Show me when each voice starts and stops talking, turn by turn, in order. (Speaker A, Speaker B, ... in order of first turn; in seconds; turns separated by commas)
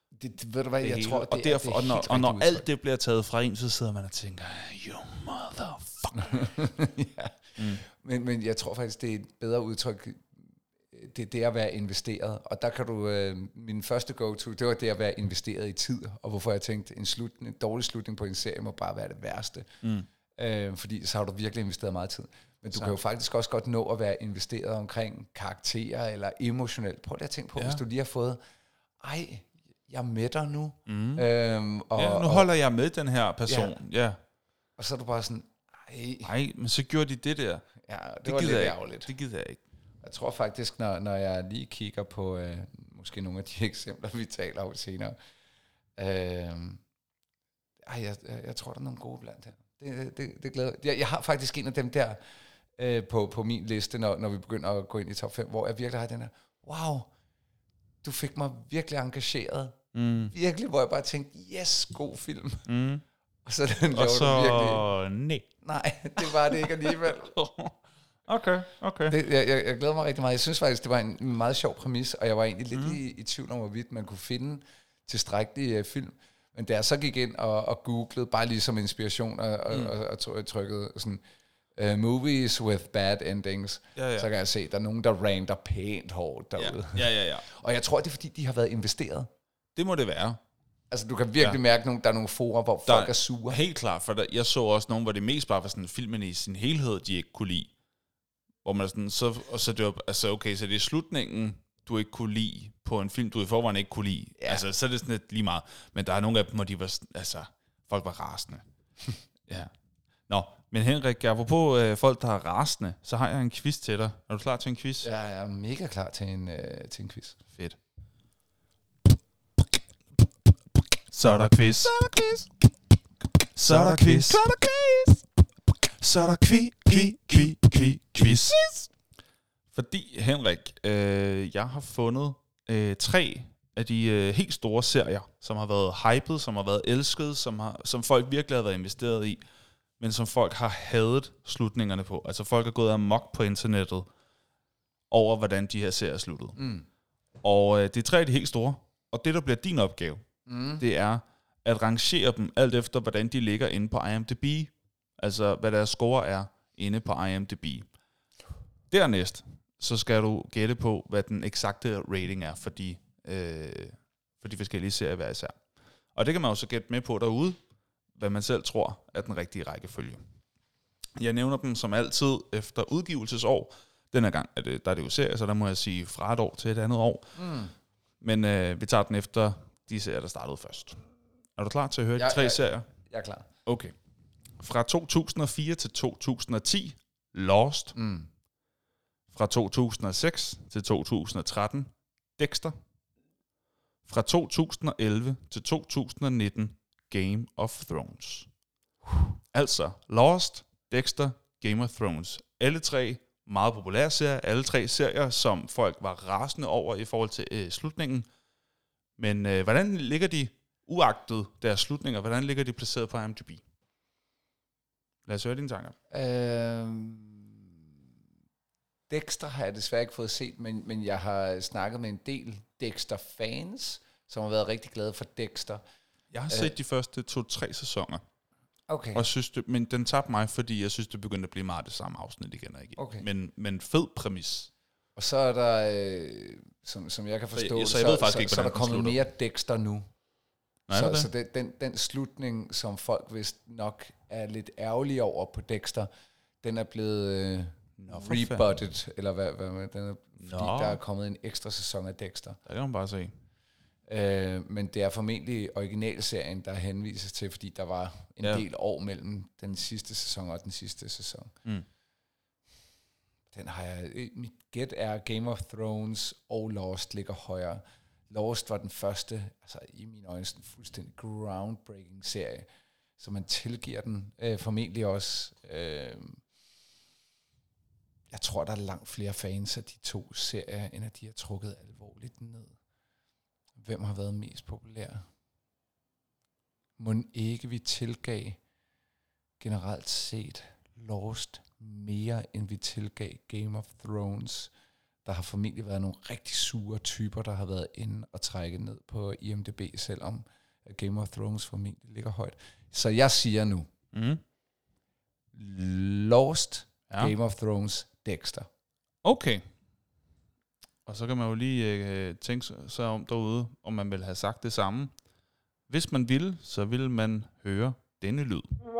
Speaker A: 0.2-2.6, Speaker B: 0.8-6.5, Speaker A: 6.2-19.8, Speaker A: 20.4-28.4, Speaker B: 22.7-23.0, Speaker A: 29.0-32.5, Speaker B: 30.9-31.2, Speaker B: 31.9-34.2, Speaker A: 33.5-33.7, Speaker A: 34.8-36.3, Speaker B: 36.2-37.6, Speaker A: 37.8-39.1, Speaker B: 38.2-39.6, Speaker A: 40.0-45.1, Speaker A: 46.0-46.8, Speaker A: 47.8-52.2, Speaker A: 52.8-57.1, Speaker A: 58.0-59.8, Speaker B: 59.9-60.3, Speaker A: 60.3-62.7, Speaker B: 62.6-63.0, Speaker A: 63.4-64.8, Speaker B: 63.9-65.5, Speaker A: 65.6-67.3, Speaker B: 66.2-67.8, Speaker B: 68.3-69.2, Speaker A: 69.1-81.2, Speaker B: 72.7-73.0, Speaker A: 81.8-89.3, Speaker B: 84.0-84.3, Speaker B: 86.6-87.4, Speaker B: 89.7-90.4, Speaker A: 90.9-93.6, Speaker B: 92.9-97.7, Speaker B: 98.6-108.6, Speaker B: 109.5-109.7, Speaker B: 110.3-115.1, Speaker A: 115.0-117.4, Speaker B: 121.1-122.0, Speaker B: 123.5-124.4, Speaker C: 123.7-125.2, Speaker C: 126.0-128.5, Speaker B: 126.1-128.6, Speaker B: 129.7-139.4, Speaker B: 140.0-144.1, Speaker B: 145.1-146.6, Speaker A: 146.6-146.9, Speaker B: 147.4-150.2, Speaker A: 150.5-150.8, Speaker B: 150.8-157.9, Speaker B: 158.9-165.6, Speaker B: 166.1-167.6, Speaker B: 168.2-170.2, Speaker B: 171.2-177.3, Speaker A: 177.4-177.7, Speaker B: 178.2-181.0, Speaker B: 181.6-182.9, Speaker A: 182.2-183.4, Speaker B: 183.6-183.9, Speaker B: 184.6-187.9, Speaker A: 187.9-188.3, Speaker B: 189.3-192.7, Speaker B: 194.1-198.5, Speaker B: 199.5-208.3, Speaker B: 209.2-213.6, Speaker B: 215.2-215.9, Speaker A: 216.1-217.6, Speaker A: 219.1-225.8, Speaker B: 226.3-228.2, Speaker A: 228.9-229.2, Speaker B: 229.1-234.7, Speaker A: 233.0-233.2, Speaker A: 235.2-240.1, Speaker B: 237.5-239.2, Speaker B: 240.9-241.3, Speaker A: 240.9-246.1, Speaker A: 246.6-252.6, Speaker B: 248.0-248.7, Speaker B: 250.4-251.0, Speaker B: 252.7-253.3, Speaker A: 254.1-261.5, Speaker A: 263.5-272.7, Speaker A: 273.2-276.4, Speaker A: 278.3-282.7, Speaker A: 283.8-285.2, Speaker A: 287.0-288.6, Speaker A: 289.6-294.7, Speaker A: 295.2-303.9, Speaker B: 304.1-304.4, Speaker A: 305.6-308.7, Speaker B: 309.2-309.6, Speaker B: 311.1-315.1, Speaker B: 315.9-318.7